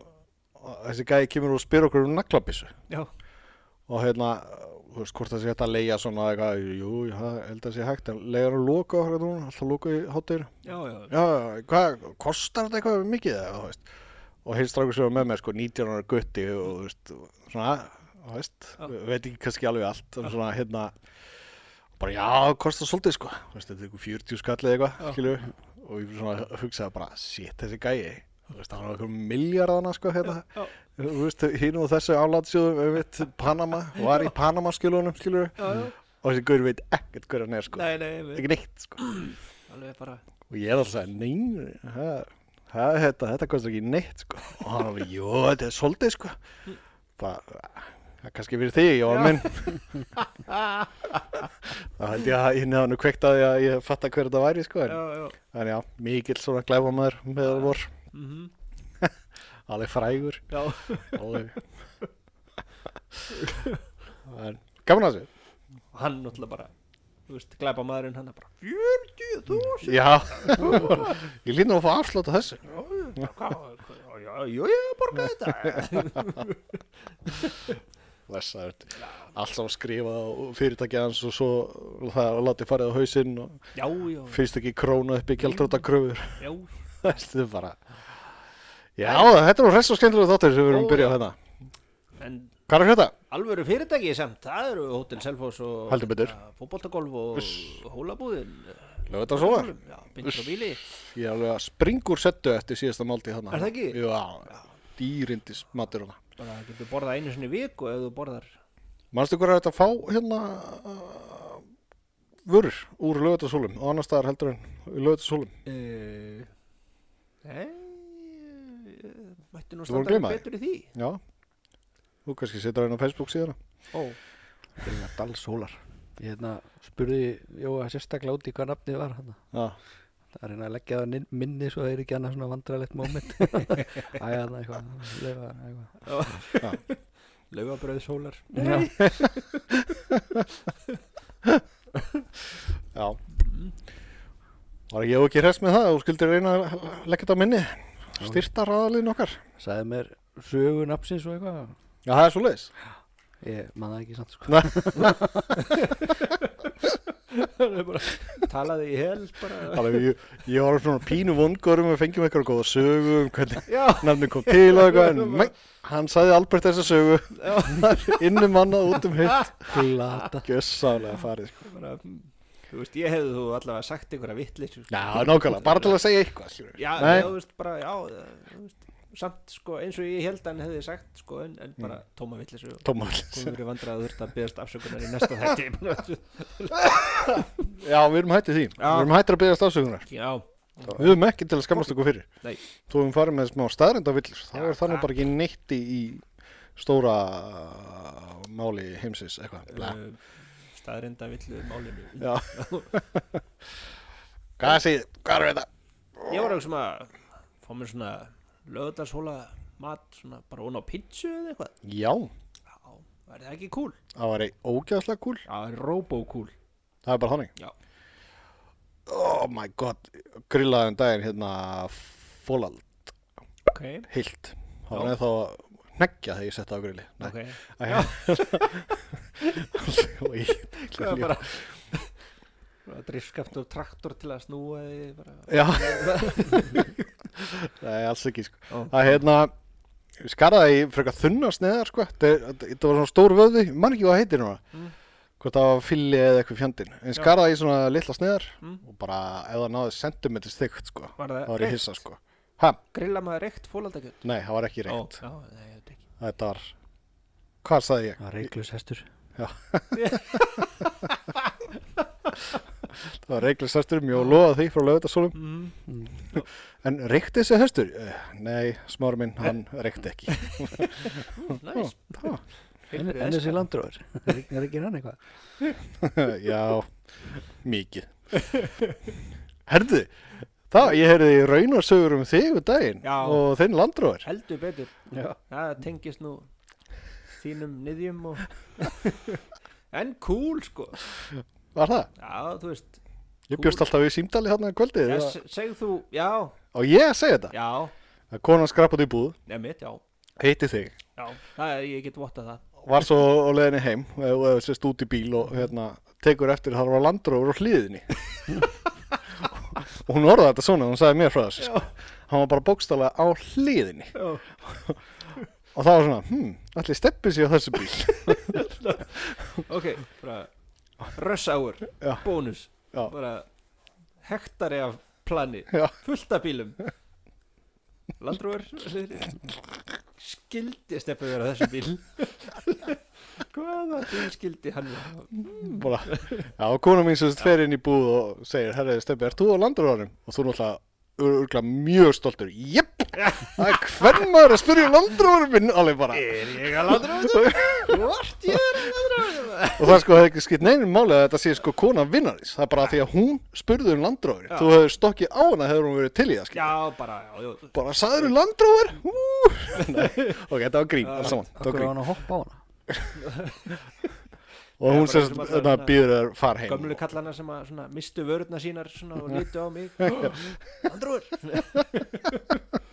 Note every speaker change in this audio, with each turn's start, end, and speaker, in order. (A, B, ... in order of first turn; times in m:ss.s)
0:00.6-0:02.7 A
0:03.9-0:10.5 A
0:10.6-0:11.1 B
0:11.1-0:13.9 A
0:14.4-0:20.9 A
0:22.0-0:39.0 A
0:30.2-0:30.7 B
0:34.0-0:34.3 B
0:35.6-0:35.9 B
0:37.7-0:40.2 B
0:40.5-0:46.4 A
0:47.2-0:49.8 A
0:49.1-0:51.5 B
0:51.8-0:57.9 A
0:54.8-0:55.4 B
0:57.4-0:58.5 B
0:59.7-1:01.6 A
1:00.5-1:01.4 B
1:03.3-1:03.8 B
1:04.2-1:05.3 A
1:05.9-1:06.7 B
1:07.3-1:11.2 B
1:09.8-1:12.7 A
1:12.7-1:16.7 B
1:15.7-1:16.0 A
1:17.2-1:17.8 B
1:18.3-1:23.6 A
1:19.0-1:19.3 B
1:23.7-1:24.4 B
1:24.3-1:26.4 A
1:26.4-1:26.7 B
1:27.0-1:27.8 A
1:29.0-1:31.4 A
1:29.0-1:29.3 B
1:30.7-1:31.2 B
1:32.2-1:32.6 B
1:32.7-1:33.1 A
1:33.3-1:40.8 B
1:35.9-1:36.3 A
1:37.3-1:37.8 A
1:39.1-1:39.7 A
1:41.0-1:46.2 A
1:43.5-1:44.7 B
1:46.4-1:48.6 B
1:49.1-1:51.6 A
1:52.4-1:55.5 A
1:55.6-1:56.5 B
1:57.4-2:00.9 B
1:59.9-2:01.2 A
2:02.2-2:03.6 A
2:03.9-2:04.2 B
2:04.8-2:09.4 C
2:10.3-2:16.4 C
2:16.0-2:17.0 B
2:17.5-2:19.7 B
2:18.5-2:19.1 C
2:19.0-2:19.3 A
2:19.9-2:20.4 A
2:22.9-2:23.2 A
2:23.4-2:23.7 B
2:24.9-2:29.4 A
2:28.2-2:28.4 C
2:29.6-2:31.7 C
2:32.0-2:32.7 A
2:33.4-2:35.5 C
2:34.5-2:35.5 A
2:35.6-2:40.0 B
2:39.6-2:49.8 A
2:43.6-2:45.5 B
2:47.3-2:50.2 B
2:49.7-2:50.5 C
2:50.3-2:51.6 A
2:51.6-2:56.0 B
2:54.9-2:57.3 A
2:56.7-3:07.5 B
3:02.8-3:03.6 A
3:07.6-3:10.1 A
3:08.8-3:09.1 B
3:10.1-3:11.1 B
3:10.9-3:12.2 A
3:11.7-3:12.6 B
3:12.9-3:16.2 A
3:14.5-3:15.1 B
3:16.8-3:20.0 A
3:19.7-3:20.2 B
3:20.7-3:22.9 B
3:22.2-3:23.4 A
3:24.6-3:26.5 A
3:26.3-3:31.7 B
3:31.8-3:32.3 A
3:32.8-3:34.0 B
3:34.1-3:35.4 A
3:35.4-3:36.5 B
3:37.0-3:37.5 A
3:39.0-3:43.1 A
3:43.7-3:44.1 B
3:44.1-3:51.6 A
3:47.2-3:48.7 B
3:50.8-3:52.1 B
3:52.8-3:57.1 B
3:55.5-3:56.6 A
3:57.3-3:59.5 A
3:58.7-3:58.9 B
4:00.2-4:04.6 A
4:05.4-4:12.8 A
4:11.2-4:12.0 B
4:12.9-4:14.2 B
4:14.2-4:15.2 A
4:14.9-4:16.0 B
4:16.2-4:16.7 A
4:17.6-4:18.5 A
4:18.2-4:19.0 C
4:19.4-4:20.4 A
4:19.9-4:21.7 B
4:22.3-4:22.6 B
4:23.0-4:25.4 A
4:25.3-4:25.7 B
4:25.9-4:26.2 C
4:26.3-4:32.4 A
4:30.3-4:33.7 B
4:32.9-4:35.2 C
4:36.0-4:38.1 A
4:38.4-4:38.9 B
4:39.6-4:40.1 A
4:40.7-4:44.2 A
4:43.0-4:43.4 B
4:44.2-4:46.5 B
4:45.1-4:45.4 C
4:47.4-4:51.1 B
4:51.7-4:52.1 A
4:52.2-4:53.0 B
4:53.5-4:55.4 A
4:53.5-4:53.8 B
4:55.0-4:56.6 B
4:56.7-4:57.5 A
4:57.5-4:57.9 B
4:58.3-4:59.3 A
4:59.5-5:00.0 B
5:00.4-5:01.0 A
5:01.2-5:02.6 B
5:02.8-5:08.5 A
5:09.4-5:15.0 A
5:11.6-5:11.9 B
5:14.1-5:14.4 B
5:15.7-5:18.6 A
5:18.2-5:20.5 B
5:21.1-5:23.5 B
5:22.0-5:22.2 A
5:24.2-5:26.8 B
5:28.2-5:29.4 B
5:30.2-5:36.5 B
5:35.4-5:48.9 A
5:43.2-5:43.7 B
5:46.1-5:50.0 B
5:49.8-5:56.7 A
5:54.5-5:54.7 B
5:56.5-5:58.3 B
5:57.7-6:02.0 A
5:59.7-6:00.4 B
6:01.0-6:01.5 B
6:01.3-6:02.6 C
6:03.2-6:03.8 B
6:04.8-6:07.0 A
6:04.8-6:06.0 B
6:06.6-6:12.6 B